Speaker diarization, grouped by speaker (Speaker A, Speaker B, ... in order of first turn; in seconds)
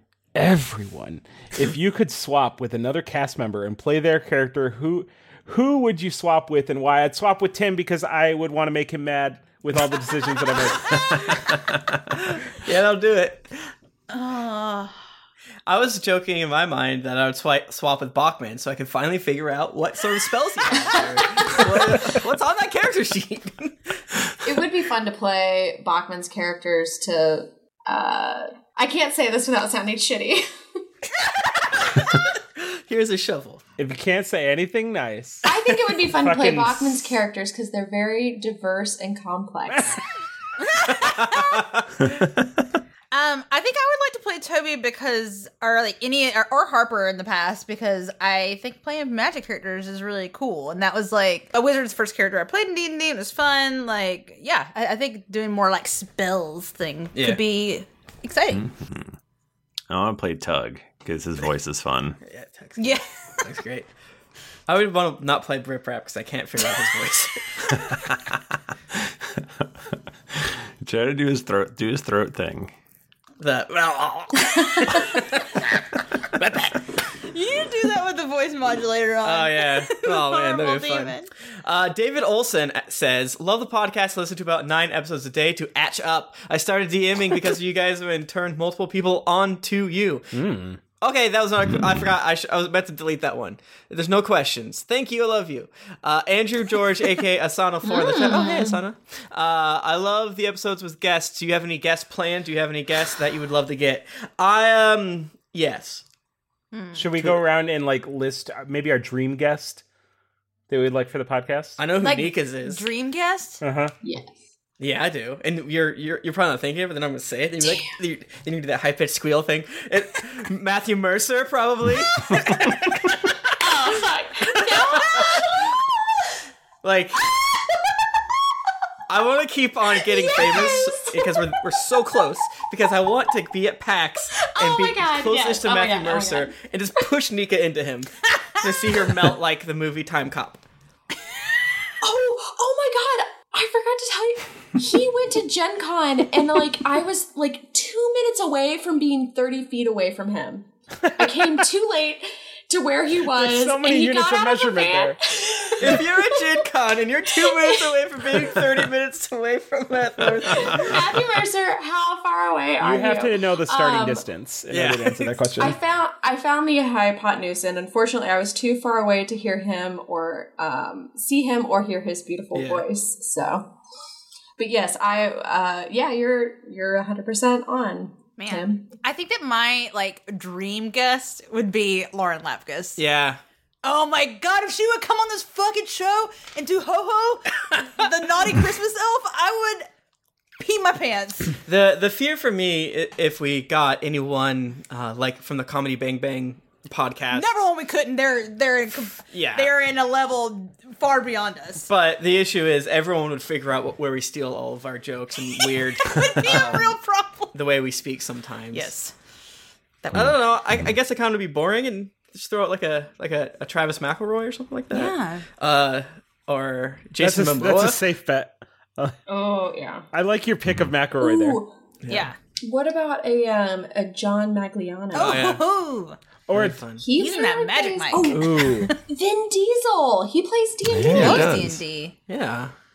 Speaker A: 0.3-10.9, 33.8-37.1, 90.3-90.8, 106.9-109.8, 110.7-111.8, 113.6-113.9, 153.3-155.2, 162.8-165.8, 217.2-219.2, 220.1-221.6, 226.5-226.8, 228.3-228.9
Speaker B: 12.3-13.6, 15.7-23.9, 32.6-33.6, 57.1-57.4, 62.2-63.9, 64.7-67.9, 73.4-75.5, 79.2-90.3, 91.0-106.0, 111.8-112.8, 114.8-122.5, 124.8-125.4, 126.8-127.3, 129.1-140.6, 155.8-161.1, 164.7-165.5, 172.5-172.8, 183.0-183.4, 191.6-197.5, 199.3-199.7, 201.9-206.9, 207.5-208.9, 210.1-218.0, 222.0-222.3, 225.2-225.6, 226.5-227.0, 231.2-231.4, 232.3-232.7
Speaker C: 14.1-14.9, 20.8-21.6, 40.6-41.6, 43.1-58.6, 62.8-63.0, 77.2-81.3, 106.7-107.1, 112.0-113.6, 178.4-183.0, 183.8-189.9, 190.6-191.6, 197.3-201.9, 205.6-207.5, 208.7-209.1, 214.9-215.4, 222.1-222.3, 225.1-226.2, 227.2-228.9, 231.1-232.1
Speaker D: 24.4-30.5, 35.4-40.0, 97.8-98.8, 114.0-114.3, 123.6-125.6, 130.1-131.6, 134.4-136.5, 142.0-156.3, 157.4-157.9, 160.4-164.2, 165.6-173.7, 174.6-178.9, 219.3-220.1, 221.2-221.7, 222.6-225.5, 227.0-231.6
Speaker E: 58.5-59.1, 59.9-62.2, 68.9-69.7, 70.3-72.7, 210.1-210.9, 220.7-220.9, 230.9-231.8